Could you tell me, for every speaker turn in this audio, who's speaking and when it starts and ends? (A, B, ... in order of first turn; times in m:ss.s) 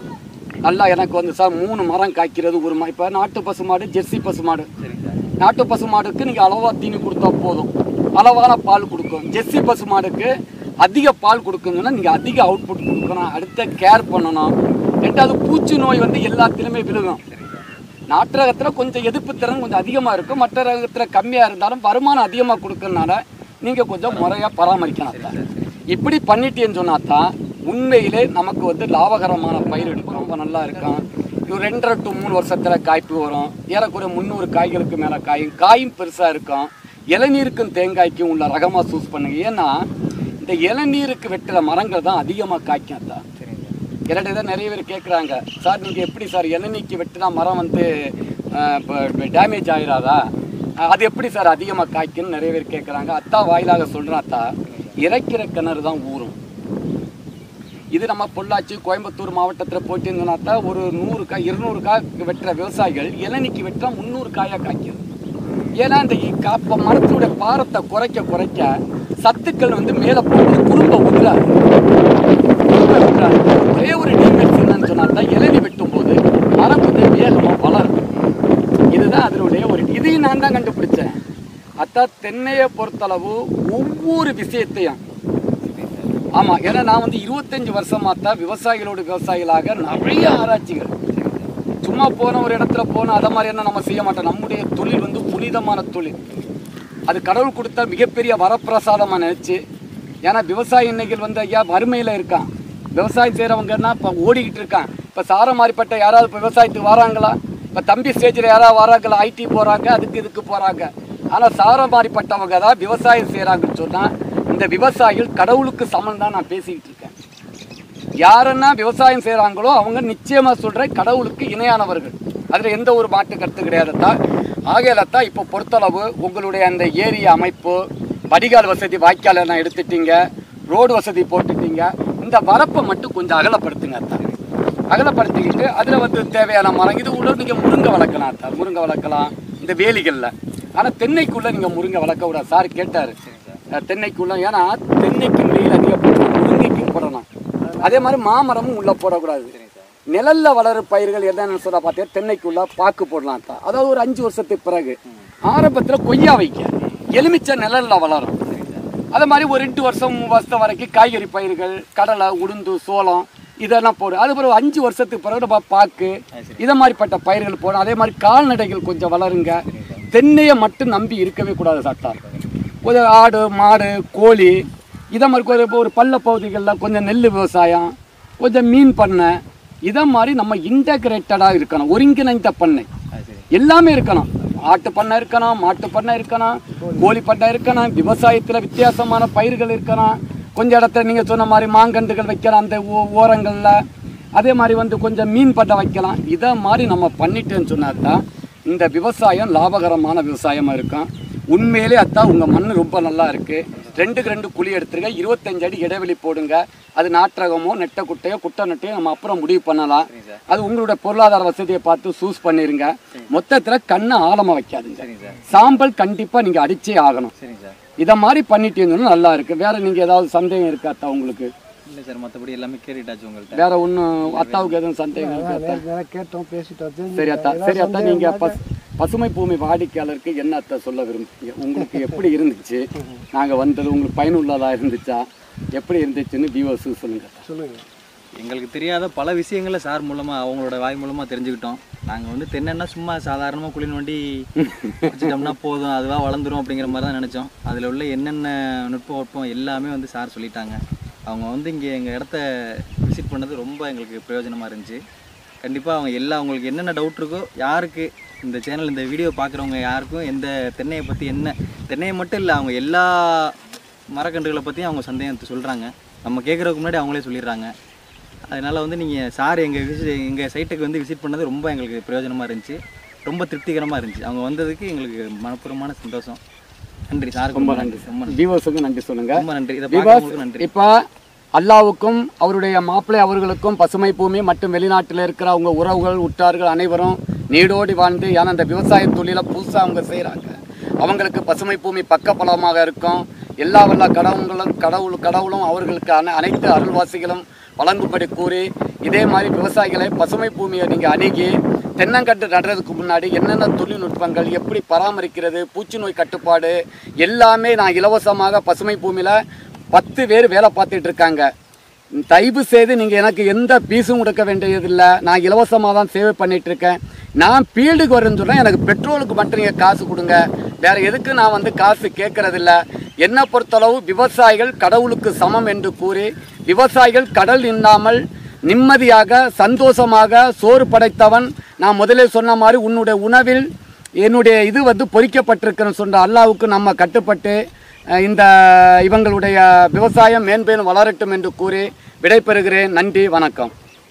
0:00.6-0:04.7 A
0:04.8-0:05.3 B
0:05.4-0:10.3 A
0:10.8-0:17.2 A
0:17.3-0:17.7 B
0:18.1-0:25.3 A
0:25.0-0:25.8 B
0:25.9-0:39.8 A
0:29.7-0:30.3 B
0:40.4-0:43.2 A
0:43.4-0:43.7 B
0:44.1-0:50.3 A
0:50.8-0:56.4 A
0:54.7-0:55.0 B
0:57.9-1:05.0 A
1:05.8-1:11.5 A
1:12.7-1:18.0 A
1:18.9-1:21.2 A
1:21.8-1:25.0 A
1:25.6-1:26.2 B
1:26.3-1:30.9 A
1:31.1-1:31.5 B
1:31.8-1:36.2 A
1:37.1-1:39.6 A
1:40.2-1:57.1 A
1:58.2-2:04.2 A
2:04.7-2:14.2 A
2:14.9-2:23.1 A
2:23.2-2:23.6 B
2:23.7-2:27.2 A
2:27.6-2:28.0 B
2:27.8-2:29.5 A
2:29.5-2:29.9 B
2:30.1-2:38.3 A
2:38.4-2:39.0 B
2:39.1-2:52.2 A
2:46.3-2:46.6 B
2:49.7-2:50.0 B
2:52.1-2:52.4 B
2:52.8-2:54.6 A
2:55.1-3:02.9 A
3:03.1-3:03.5 B
3:03.5-3:13.8 A
3:06.8-3:07.0 C
3:14.4-3:37.3 A
3:23.7-3:24.2 B
3:30.1-3:30.4 B
3:35.0-3:35.8 B
3:37.4-3:37.8 B
3:38.0-3:41.5 A
3:41.9-3:44.8 B
3:43.5-3:45.8 A
3:45.2-3:48.6 C
3:47.1-3:57.4 A
3:57.4-3:57.8 C
3:58.4-4:04.5 B
4:04.6-4:05.5 A
4:05.0-4:15.0 B
4:15.6-4:23.6 B
4:24.1-4:27.7 B
4:28.5-4:36.4 B
4:37.1-4:38.4 B
4:37.5-4:41.0 A
4:39.3-4:40.7 B
4:41.6-5:09.4 A
5:09.9-5:11.5 A
5:12.2-5:33.7 A
5:34.2-5:37.6 A
5:38.2-5:43.7 A